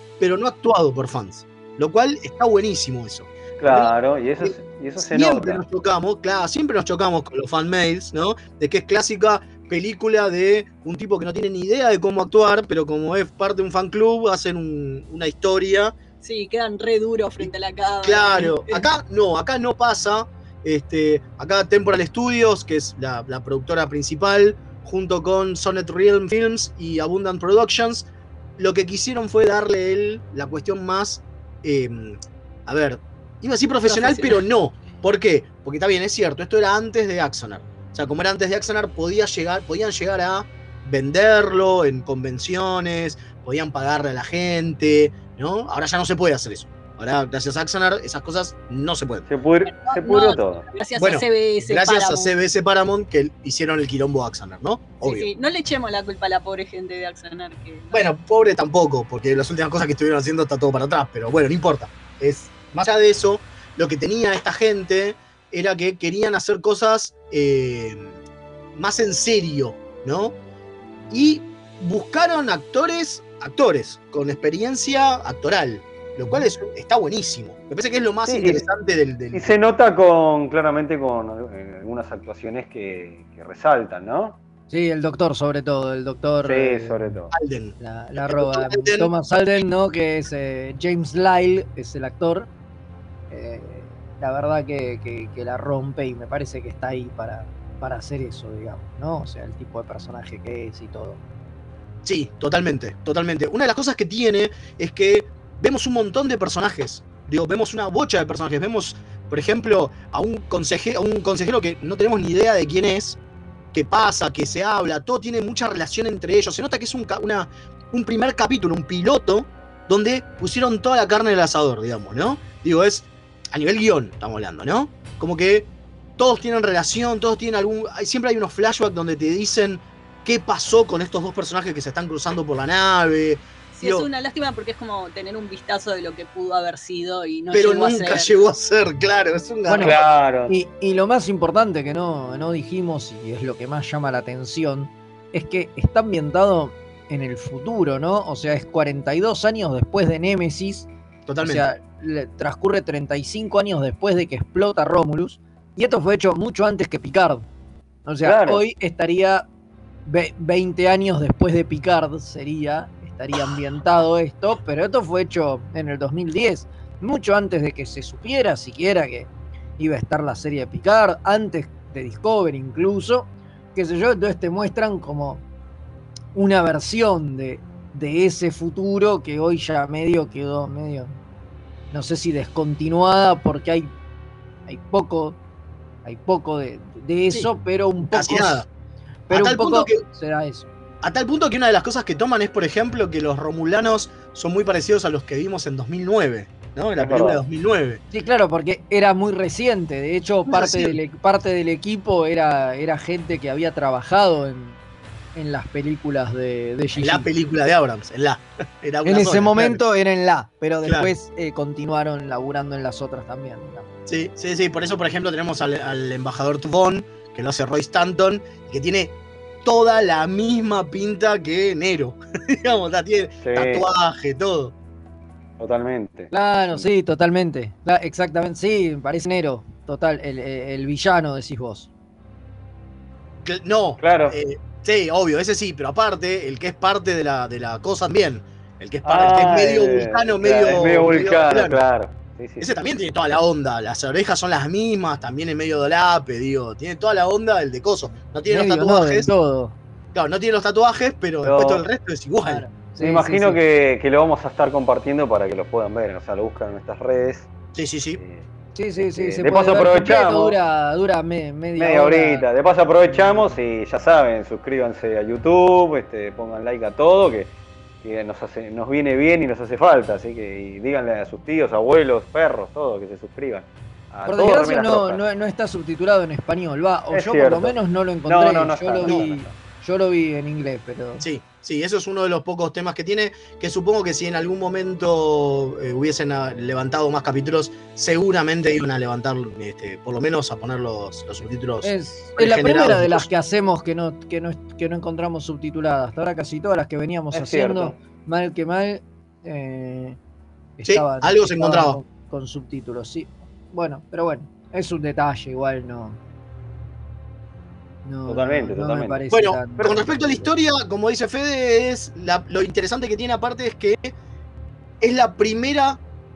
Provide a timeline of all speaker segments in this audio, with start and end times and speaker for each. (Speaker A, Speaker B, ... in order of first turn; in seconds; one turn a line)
Speaker A: 0.2-15.9
Speaker B: 3.6-5.6
Speaker C: 16.2-18.8
Speaker A: 17.4-49.3
Speaker C: 33.9-34.4
Speaker B: 49.3-50.6
Speaker C: 49.7-52.3
Speaker A: 51.0-55.3
Speaker C: 55.0-58.0
Speaker A: 57.9-68.2
Speaker A: 68.7-70.3
Speaker A: 71.1-79.5
Speaker B: 78.3-78.7
Speaker B: 79.3-84.4
Speaker D: 84.7-87.2
Speaker B: 86.4-87.3
Speaker A: 87.3-89.1
Speaker D: 87.8-92.5
Speaker D: 93.3-101.2
Speaker A: 102.0-113.2
Speaker A: 113.7-134.1
Speaker C: 133.8-138.3
Speaker A: 137.5-140.0
Speaker D: 139.7-139.9
Speaker B: 139.8-140.5
Speaker D: 140.5-150.9
Speaker A: 151.2-151.7
Speaker D: 151.4-157.4
Speaker D: 158.1-159.4
Speaker B: 158.2-158.6
Speaker D: 160.1-175.4
Speaker D: 176.3-181.2
Speaker D: 181.9-183.9
Speaker D: 184.7-185.4
Speaker D: 186.0-188.6
Speaker A: 188.0-188.7
Speaker A: 189.3-190.0
Speaker D: 189.3-190.7
Speaker A: 191.0-198.0
Speaker B: 197.0-197.4
Speaker D: 198.1-204.8
Speaker A: 200.5-200.9
Speaker D: 205.3-207.3
Speaker A: 207.0-209.8
Speaker D: 209.0-213.8
Speaker A: 210.8-211.1
Speaker A: 214.1-224.7
Speaker B: 223.4-223.8
Speaker B: 225.6-226.8
Speaker D: 226.3-231.9
Speaker A: 233.4-241.8
Speaker B: 234.0-234.3
Speaker B: 239.0-242.7
Speaker A: 242.6-249.3
Speaker D: 248.5-249.7
Speaker A: 250.1-252.6
Speaker B: 251.4-251.8
Speaker D: 252.4-253.6
Speaker B: 253.0-257.5
Speaker A: 257.7-258.2
Speaker B: 258.2-258.4
Speaker D: 258.7-262.5
Speaker B: 259.0-260.6
Speaker B: 261.8-267.5
Speaker D: 263.1-263.6
Speaker B: 268.0-275.2
Speaker D: 274.2-281.2
Speaker B: 277.1-277.7
Speaker B: 278.3-279.5
Speaker A: 281.2-293.3
Speaker D: 291.8-300.2
Speaker B: 297.3-297.9
Speaker D: 300.8-306.2
Speaker A: 300.8-302.0
Speaker D: 308.0-310.5
Speaker B: 308.3-310.0
Speaker A: 309.3-314.1
Speaker A: 315.0-316.0